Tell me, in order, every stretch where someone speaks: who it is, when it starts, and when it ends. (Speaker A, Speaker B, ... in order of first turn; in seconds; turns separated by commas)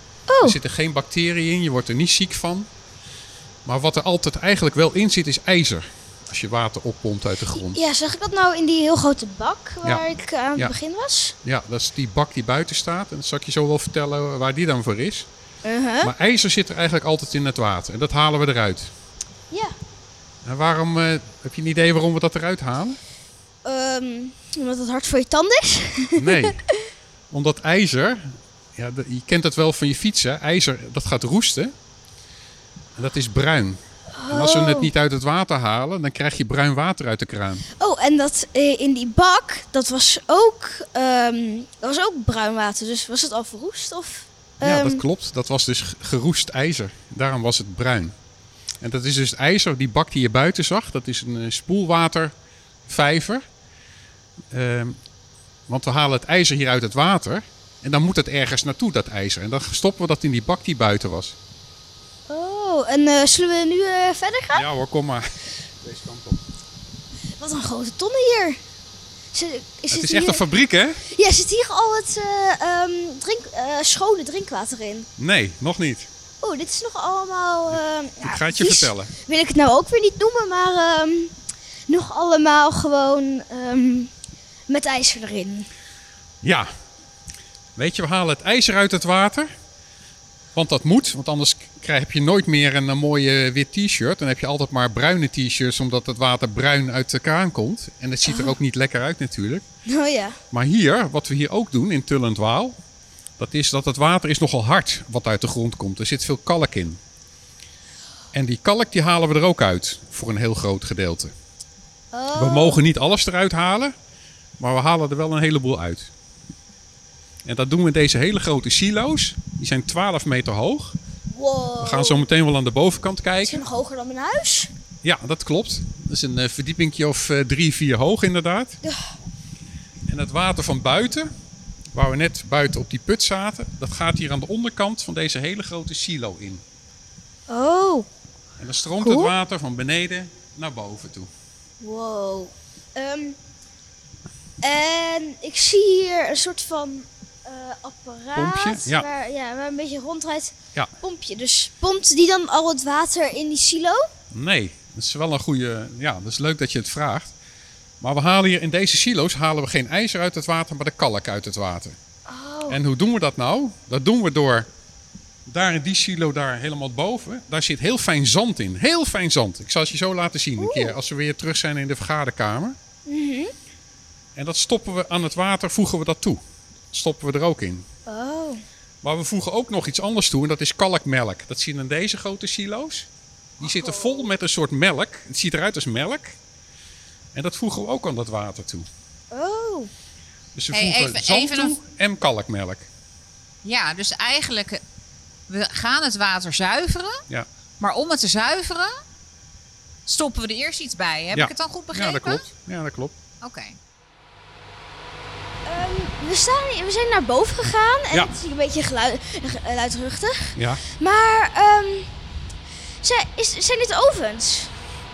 Speaker A: 0.3-0.6, Speaker B: 0.4-2.7, Speaker B: 3.6-7.8, Speaker A: 7.5-11.3, Speaker B: 9.8-10.7, Speaker B: 11.4-15.3, Speaker A: 15.6-16.1, Speaker B: 16.0-18.9, Speaker B: 20.4-23.0, Speaker A: 23.6-26.8, Speaker B: 26.1-26.6, Speaker B: 27.3-31.7, Speaker B: 33.0-33.8, Speaker A: 34.1-34.9, Speaker B: 34.3-37.6, Speaker A: 37.8-45.0, Speaker B: 44.6-48.1, Speaker B: 48.8-52.3, Speaker B: 52.9-53.4, Speaker B: 54.5-55.0, Speaker B: 55.7-61.4, Speaker A: 62.3-64.7, Speaker B: 64.5-66.4, Speaker A: 67.4-68.6, Speaker A: 69.3-70.4, Speaker B: 69.9-71.0, Speaker A: 71.1-75.1, Speaker B: 75.2-76.1, Speaker A: 76.4-81.3, Speaker B: 77.7-79.1, Speaker A: 81.9-84.1, Speaker A: 84.7-85.7, Speaker B: 86.4-86.7, Speaker B: 87.8-89.5, Speaker B: 90.5-99.6, Speaker A: 98.2-98.6, Speaker A: 99.9-100.4, Speaker B: 100.5-102.8, Speaker B: 103.4-107.0, Speaker B: 108.3-111.3, Speaker A: 112.1-112.8, Speaker B: 112.3-113.9, Speaker B: 114.6-116.1, Speaker B: 117.4-121.0, Speaker A: 121.3-122.2, Speaker B: 121.8-123.6, Speaker A: 123.4-124.7, Speaker B: 125.0-128.8, Speaker B: 130.1-131.3, Speaker B: 131.9-136.6, Speaker A: 137.5-138.1, Speaker B: 138.6-141.3, Speaker A: 139.0-139.3, Speaker A: 141.8-143.4, Speaker A: 144.6-154.0, Speaker B: 148.3-149.1, Speaker B: 154.3-157.3, Speaker B: 158.0-162.0, Speaker A: 162.3-162.8, Speaker B: 162.7-164.7, Speaker B: 165.5-172.8, Speaker A: 170.6-170.9, Speaker A: 173.1-173.5, Speaker B: 174.3-176.4, Speaker B: 176.9-177.8, Speaker A: 178.1-178.6, Speaker B: 179.0-183.1, Speaker B: 183.6-186.3, Speaker A: 183.6-184.3, Speaker B: 187.3-188.9, Speaker A: 189.3-189.9, Speaker B: 190.6-192.9, Speaker C: 190.7-191.8, Speaker C: 193.6-194.8, Speaker C: 195.5-197.2, Speaker C: 197.8-198.9, Speaker C: 200.1-202.5, Speaker B: 201.3-203.1, Speaker C: 203.4-203.8, Speaker A: 205.7-212.1, Speaker B: 210.6-210.8, Speaker A: 213.0-214.7